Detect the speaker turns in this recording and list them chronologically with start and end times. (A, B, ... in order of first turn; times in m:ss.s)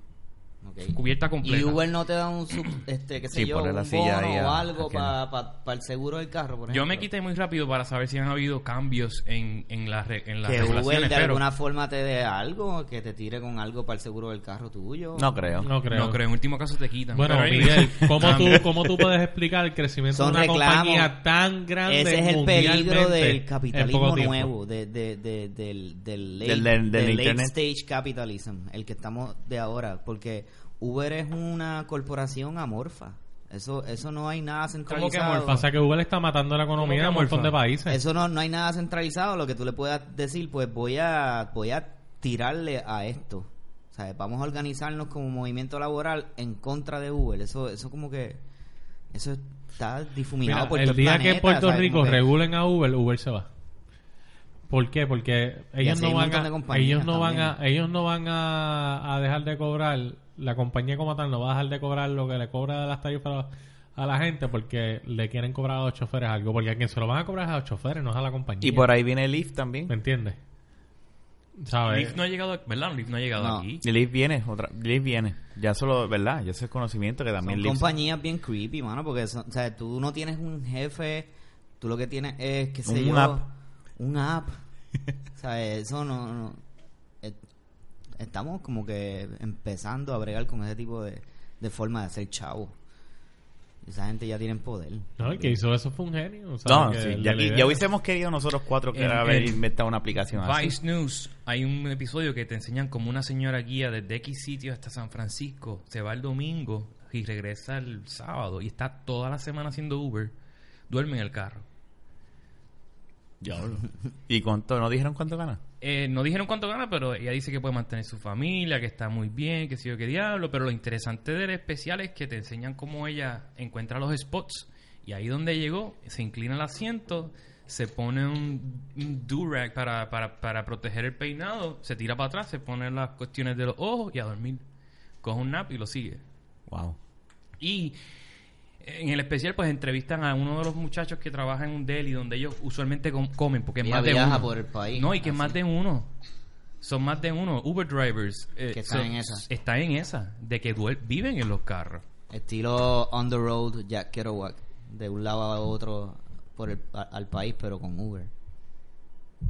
0:00.6-0:07.1 A
0:00.9-0:01.8 B
0:03.3-0:05.2 C
0:06.7-0:11.4 B
0:10.4-0:10.9 C
0:10.6-0:15.3 A
0:15.2-0:15.7 C
0:15.6-0:16.2 D
0:15.9-0:18.7 B
0:17.1-0:24.5 D
0:18.0-0:18.6 C
0:20.1-0:21.1 A
0:21.9-0:35.6 A
0:26.4-0:27.6 C
0:34.9-0:35.6 B
0:35.5-0:38.0 D
0:36.8-0:37.6 B
0:37.9-0:48.4 A
0:49.1-0:52.2 A
0:50.4-0:53.5 D
0:54.7-1:08.9 D
0:55.8-0:57.6 A
1:08.6-1:09.9 C
1:09.9-1:10.4 D
1:11.6-1:12.2 D
1:11.9-1:13.8 B
1:13.4-1:13.7 A
1:13.8-1:17.9 C
1:17.4-1:21.3 A
1:21.8-1:24.6 A
1:22.8-1:23.4 C
1:25.4-1:26.6 A
1:28.2-1:32.7 A
1:33.8-1:35.6 A
1:35.2-1:37.8 D
1:36.7-1:40.8 C
1:38.9-1:39.6 B
1:40.3-1:50.3 B
1:50.9-1:51.7 B
1:53.4-1:55.6 C
1:55.8-2:14.6 B
2:15.2-2:16.2 B
2:16.7-2:17.0 C
2:17.6-2:18.0 B
2:18.8-2:26.1 B
2:23.8-2:25.6 A
2:26.8-2:32.0 B
2:28.7-2:29.4 A
2:32.3-2:38.3 A